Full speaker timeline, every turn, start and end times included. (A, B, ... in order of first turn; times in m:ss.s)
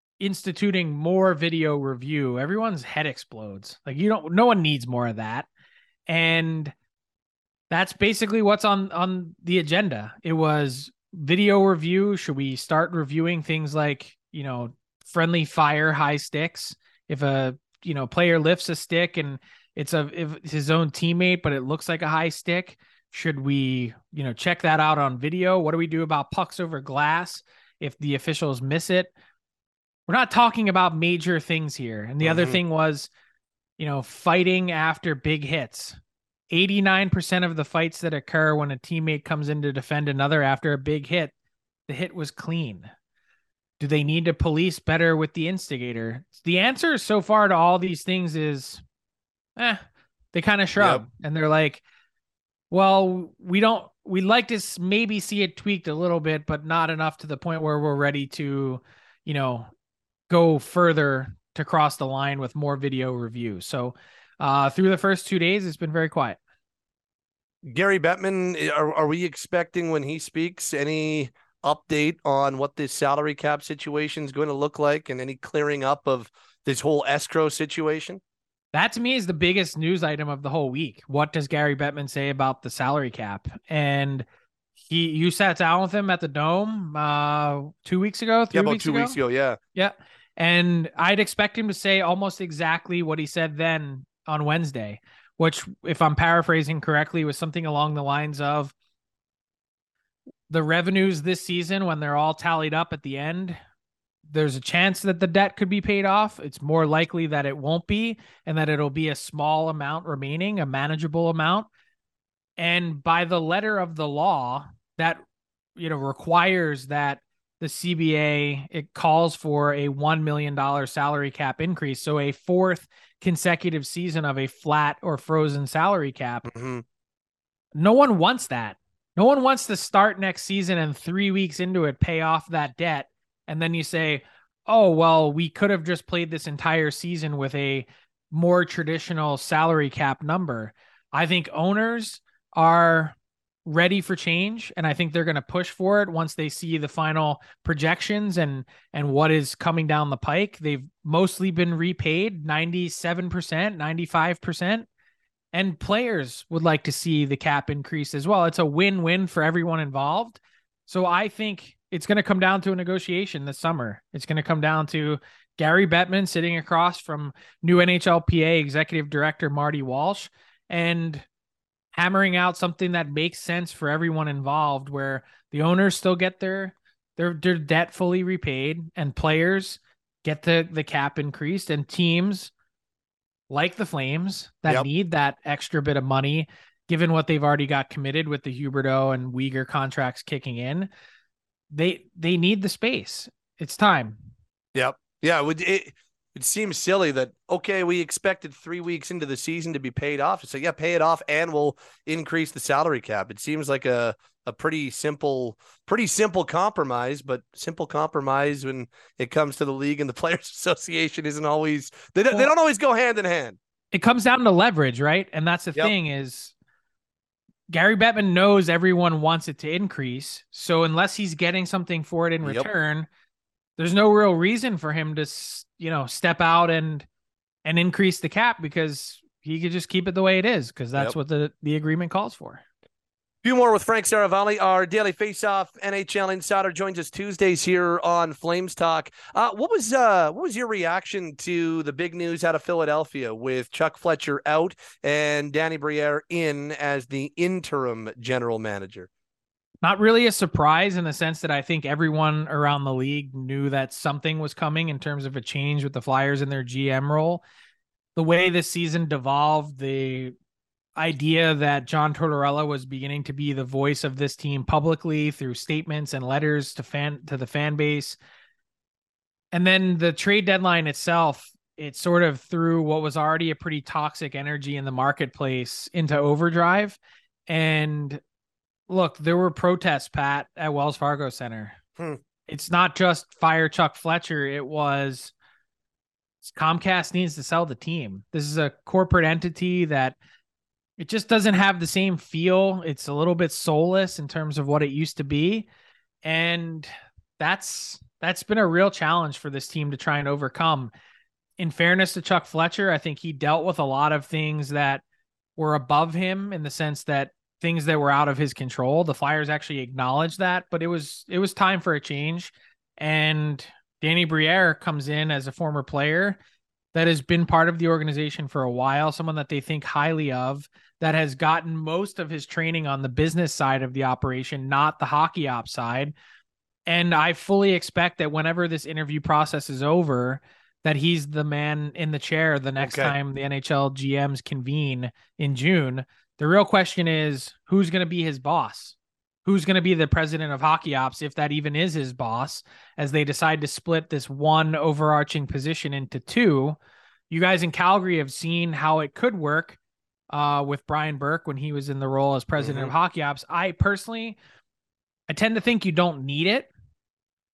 0:00.2-0:05.5 A
0:06.1-0:06.7 A
0:07.7-0:29.1 A
0:30.1-0:33.1 A
0:32.2-0:32.6 B
0:33.8-0:36.0 A
0:36.5-0:41.3 A
0:41.9-0:42.9 A
0:43.8-0:48.8 A
0:49.6-0:51.8 A
0:50.8-0:51.0 B
0:52.7-0:59.7 A
1:00.3-1:06.4 A
1:07.6-1:18.2 B
1:18.7-1:24.2 A
1:24.8-1:29.2 A
1:28.5-1:29.6 B
1:29.7-1:38.7 A
1:40.5-1:43.6 A
1:44.3-1:51.7 A
1:52.6-1:55.2 A
1:55.8-2:06.5 A
2:06.4-2:06.8 B
2:07.8-2:34.8 A
2:35.5-2:51.2 A
2:51.9-3:02.5 A
3:03.5-3:10.9 A
3:11.7-3:14.3 A
3:14.7-3:33.6 B
3:33.9-3:36.5 A
3:37.7-3:43.1 A
3:42.4-3:42.7 B
3:43.8-3:47.0 A
3:47.6-3:52.6 A
3:53.4-4:09.1 B
4:09.8-4:17.4 A
4:18.2-4:20.3 A
4:21.0-4:28.2 A
4:29.5-4:38.2 A
4:38.9-4:41.8 A
4:42.5-4:45.3 A
4:46.4-4:50.2 A
4:51.0-4:55.7 A
4:56.2-5:00.9 A
5:01.6-5:05.0 A
5:05.6-5:16.4 A
5:16.9-5:26.1 A
5:26.8-5:46.8 A
5:32.8-5:33.1 B
5:47.3-5:49.8 A
5:50.3-5:54.4 A
5:52.6-5:52.9 B
5:55.3-5:56.7 A